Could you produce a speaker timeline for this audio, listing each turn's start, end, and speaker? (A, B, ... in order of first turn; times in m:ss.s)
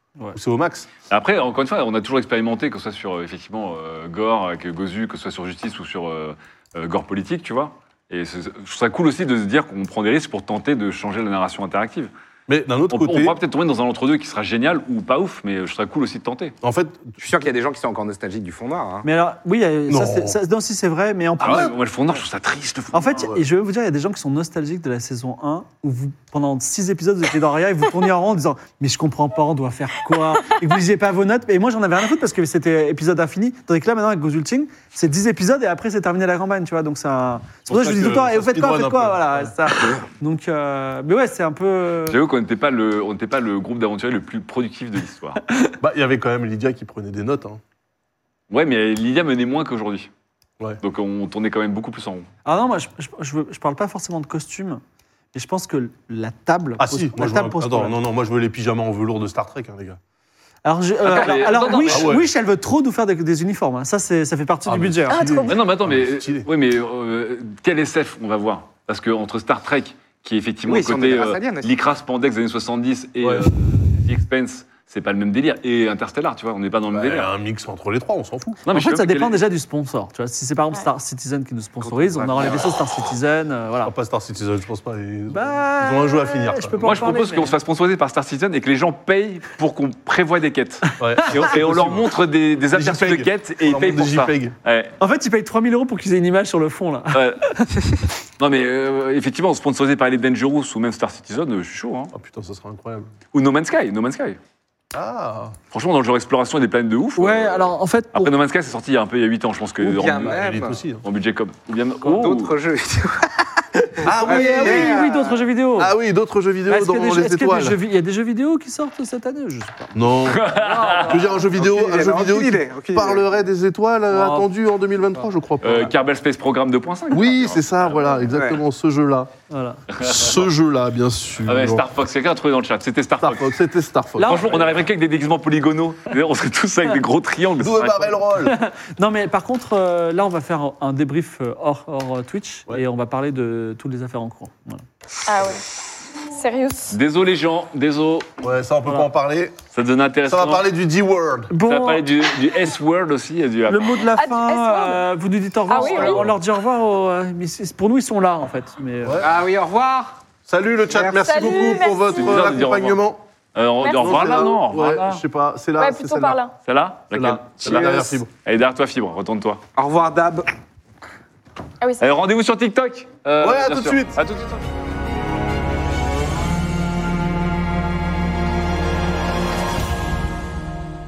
0:00.3-0:00.9 A
0:01.1-0:12.1 B
0:12.5-0:13.4 A
0:12.9-0:16.5 B
0:16.6-0:17.2 A
0:17.2-0:19.0 C
0:19.0-0:21.7 D
0:19.9-0:20.4 A
0:21.4-0:23.3 B
0:21.4-0:21.7 A
0:22.9-0:42.2 D
0:37.7-0:39.5 A
0:42.1-0:45.4 B
0:45.8-0:47.6 A
0:48.5-0:50.1 B
0:50.8-0:52.3 B
0:52.4-0:54.8 D
0:55.3-0:58.0 D
0:56.8-1:00.0 A
1:00.6-1:05.2 D
1:01.0-1:02.1 B
1:01.9-1:02.3 A
1:04.6-1:06.5 A
1:05.1-1:05.6 E
1:05.4-1:17.3 B
1:10.6-1:11.7 C
1:13.2-1:13.5 A
1:16.9-1:18.6 A
1:18.6-1:19.4 B
1:18.6-1:23.9 D
1:21.8-1:22.7 C
1:23.8-1:27.1 A
1:25.3-1:27.6 D
1:26.8-1:34.9 B
1:31.0-1:32.1 A
1:32.7-1:34.5 A
1:35.0-1:37.9 D
1:37.1-1:37.4 B
1:38.4-1:42.1 B
1:42.1-1:43.1 A
1:43.3-1:44.4 B
1:44.9-1:45.6 A
1:45.7-1:50.5 B
1:47.2-1:48.3 D
1:49.8-1:50.8 C
1:50.1-1:51.0 A
1:51.0-1:52.5 B
1:52.0-1:55.4 C
1:54.0-1:55.1 A
1:54.1-1:55.9 D
1:55.8-1:57.8 A
1:56.7-2:01.4 D
1:59.9-2:05.9 A
2:00.3-2:01.3 B
2:01.5-2:03.2 C
2:04.1-2:04.5 D
2:05.6-2:08.2 B
2:07.1-2:09.3 A
2:08.3-2:08.6 C
2:09.5-2:09.8 D
2:09.9-2:10.4 B
2:10.0-2:11.8 A
2:11.4-2:13.5 B
2:13.2-2:14.6 A
2:14.2-2:14.6 D
2:14.2-2:18.2 B
2:17.6-2:18.6 A
2:18.4-2:24.8 D
2:25.3-2:25.6 E
2:26.3-2:26.9 E
2:26.9-2:28.3 B
2:28.4-2:29.6 A
2:29.7-2:30.6 B
2:30.2-2:31.5 A
2:31.5-2:32.1 D
2:31.6-2:34.0 B
2:33.7-2:39.2 D
2:34.1-2:35.0 E
2:35.7-2:36.2 E
2:35.8-2:36.3 A
2:39.0-2:39.3 A
2:39.2-2:40.2 C
2:40.5-2:43.2 A
2:40.9-2:41.6 C
2:41.2-2:42.5 E
2:42.1-2:43.0 B
2:43.5-2:45.2 B
2:43.8-2:44.5 E
2:43.9-2:46.4 A
2:45.8-2:46.5 E
2:46.6-2:49.6 B
2:47.1-2:48.3 A
2:49.8-2:50.5 C
2:51.8-2:52.0 E
2:52.0-2:54.6 B
2:53.4-2:54.2 A